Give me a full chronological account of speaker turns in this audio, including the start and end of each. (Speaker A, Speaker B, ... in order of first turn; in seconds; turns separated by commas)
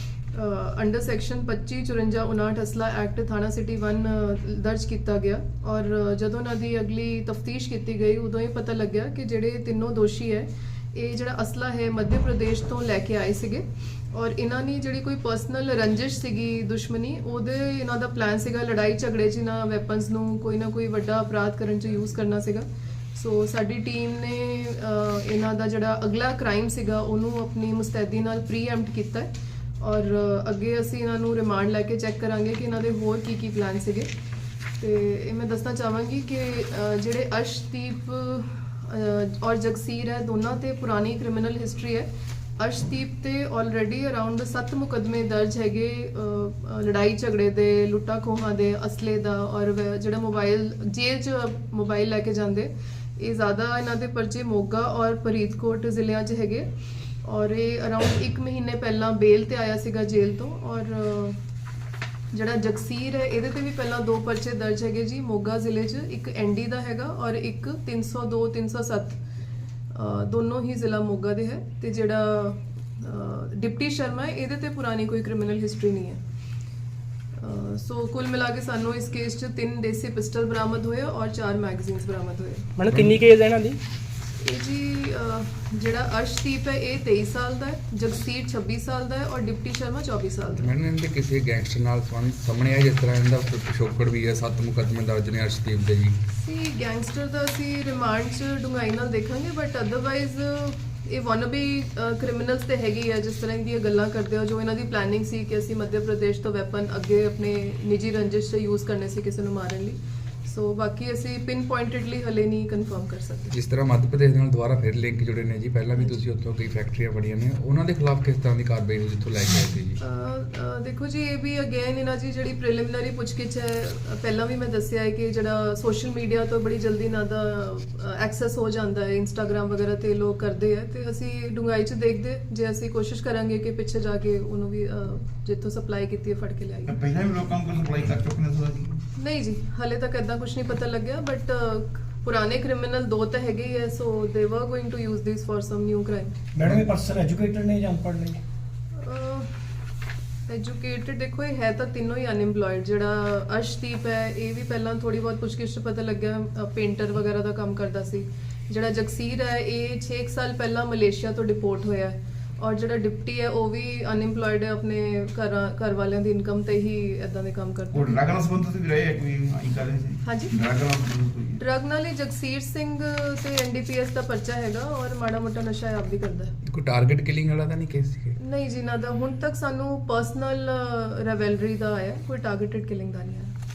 Speaker A: 0.3-29.3, Speaker A: 29.8-34.1, Speaker A: 34.8-42.1, Speaker A: 42.6-56.6, Speaker A: 57.2-61.4, Speaker A: 62.3-69.2, Speaker A: 69.9-76.2, Speaker A: 77.4-82.7, Speaker B: 82.8-83.8, Speaker C: 82.9-83.2, Speaker A: 84.4-90.7, Speaker C: 90.5-96.1, Speaker A: 96.3-113.5, Speaker C: 113.5-120.0, Speaker A: 116.0-116.2, Speaker A: 120.0-136.9, Speaker D: 136.9-139.0, Speaker A: 139.2-146.3, Speaker B: 146.5-148.4, Speaker A: 148.9-149.5, Speaker A: 150.5-168.2, Speaker D: 167.9-171.6, Speaker A: 170.2-170.6, Speaker A: 171.6-176.5, Speaker C: 176.7-178.4, Speaker A: 178.4-183.5